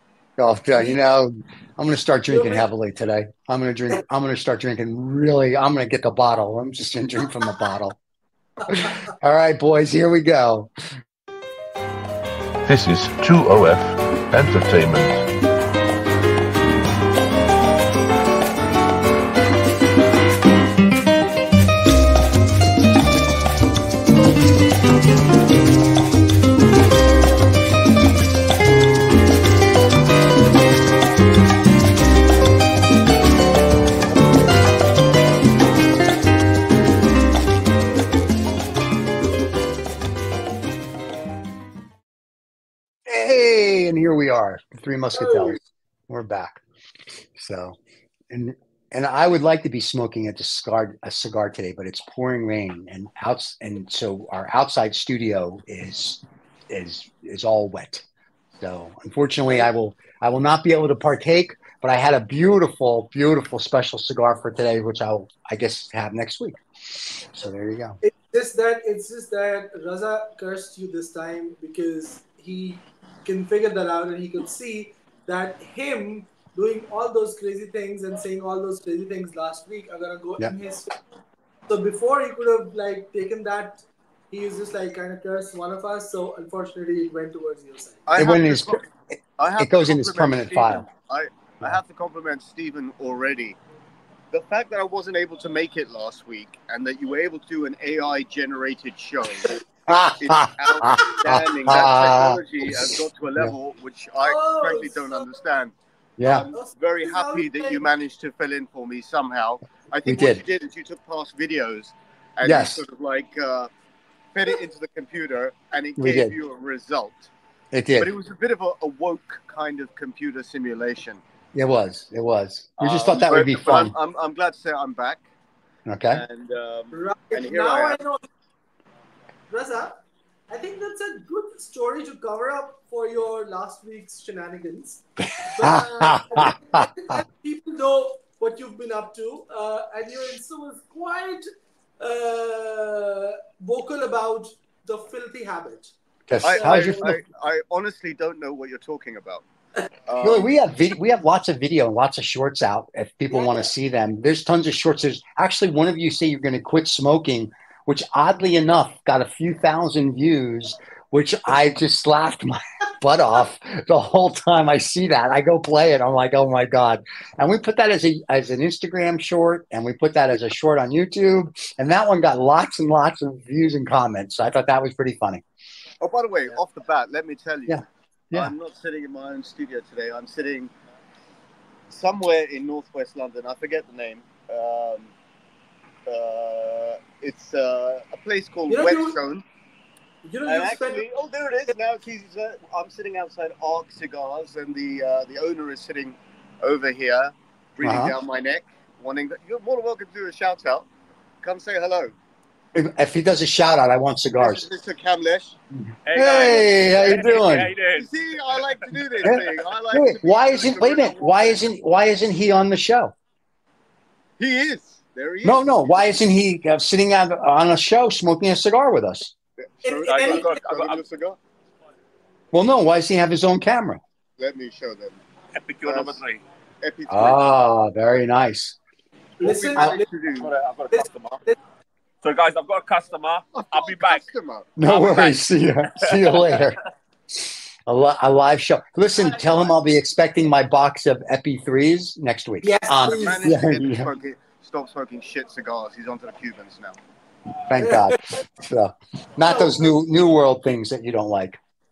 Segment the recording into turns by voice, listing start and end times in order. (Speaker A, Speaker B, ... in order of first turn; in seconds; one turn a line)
Speaker A: 0.4-8.0
Speaker B: 2.3-2.6
Speaker A: 8.7-10.7
Speaker C: 12.7-15.2
Speaker A: 43.1-46.6
Speaker B: 45.1-45.6
Speaker A: 47.4-47.8
Speaker A: 48.3-58.0
Speaker A: 58.6-66.6
Speaker A: 67.3-68.0
Speaker B: 68.0-81.0
Speaker B: 81.7-88.1
Speaker D: 88.1-88.8
Speaker A: 88.2-90.8
Speaker D: 89.4-93.6
Speaker D: 94.3-105.8
Speaker A: 99.9-103.5
Speaker B: 100.8-101.2
Speaker B: 104.2-105.3
Speaker A: 106.2-106.5
Speaker B: 106.3-107.8
Speaker D: 106.4-113.7
Speaker A: 110.0-110.4
Speaker A: 112.4-112.8
Speaker D: 114.3-117.3
Speaker A: 116.0-116.3
Speaker A: 117.7-118.1
Speaker D: 118.0-121.2
Speaker A: 121.5-123.9
Speaker D: 122.8-125.3
Speaker A: 125.9-126.2
Speaker D: 126.1-128.0
Speaker B: 126.9-128.3
Speaker B: 129.5-141.5
Speaker A: 135.6-136.9
Speaker B: 142.0-147.2
Speaker A: 146.3-147.2
Speaker D: 146.4-149.4
Speaker D: 150.1-150.5
Speaker A: 150.2-175.4
Speaker D: 176.0-180.7
Speaker A: 177.7-178.5
Speaker D: 181.9-185.1
Speaker D: 186.1-189.4
Speaker B: 188.7-189.2
Speaker B: 190.2-191.0
Speaker D: 190.4-200.9
Speaker A: 197.8-198.2
Speaker D: 201.4-202.1
Speaker A: 202.7-204.7
Speaker D: 204.4-205.6
Speaker A: 205.8-207.7
Speaker E: 206.1-209.5
Speaker D: 207.9-211.6
Speaker A: 209.2-213.1
Speaker D: 214.4-216.2
Speaker A: 215.4-219.3
Speaker D: 219.7-221.4
Speaker B: 219.8-220.5
Speaker E: 220.1-221.0
Speaker A: 222.5-224.0
Speaker D: 224.4-225.2
Speaker E: 225.6-226.4
Speaker D: 225.8-226.2
Speaker D: 226.8-227.4
Speaker A: 227.1-228.8
Speaker B: 229.4-230.1
Speaker D: 229.4-230.5
Speaker E: 230.3-231.4
Speaker B: 230.9-231.6
Speaker E: 232.2-234.2
Speaker D: 233.5-235.3
Speaker A: 234.8-236.8
Speaker E: 236.0-236.7
Speaker A: 237.9-244.1
Speaker B: 242.6-243.5
Speaker D: 243.0-247.0
Speaker A: 247.7-251.6
Speaker B: 247.8-248.4
Speaker B: 249.5-249.9